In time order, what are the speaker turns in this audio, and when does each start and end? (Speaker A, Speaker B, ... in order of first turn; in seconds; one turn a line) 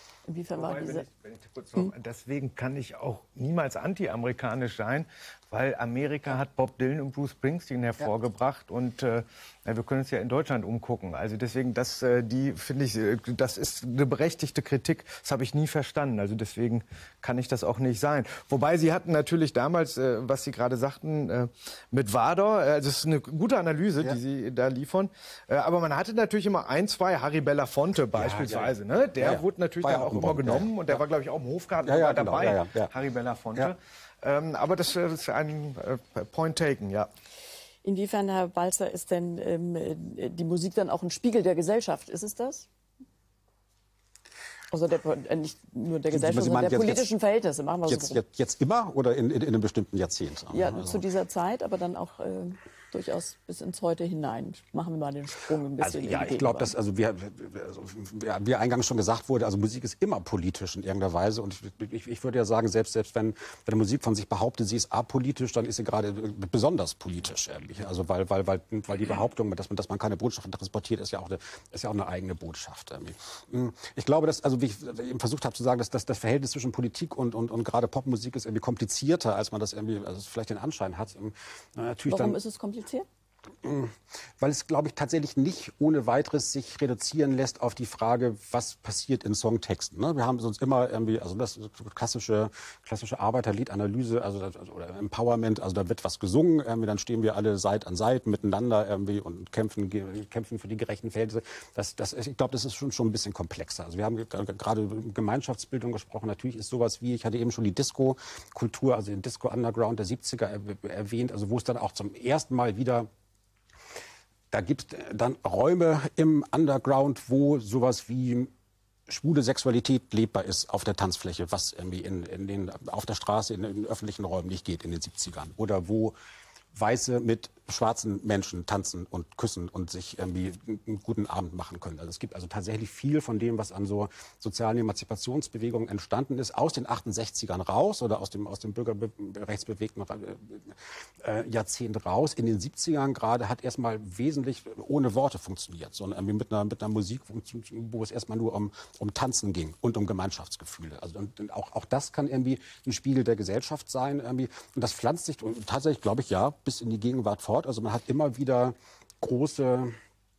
Speaker A: 0.3-1.0
Speaker B: 0.6-37.1
Speaker C: 28.1-31.0
Speaker C: 31.8-32.9
Speaker A: 37.8-42.7
Speaker A: 44.7-48.2
Speaker C: 46.1-47.1
Speaker C: 47.9-51.0
Speaker A: 50.5-56.7
Speaker C: 55.8-82.4
Speaker A: 82.1-83.0
Speaker C: 83.6-113.1
Speaker C: 114.5-118.5
Speaker C: 119.1-126.1
Speaker C: 126.7-159.9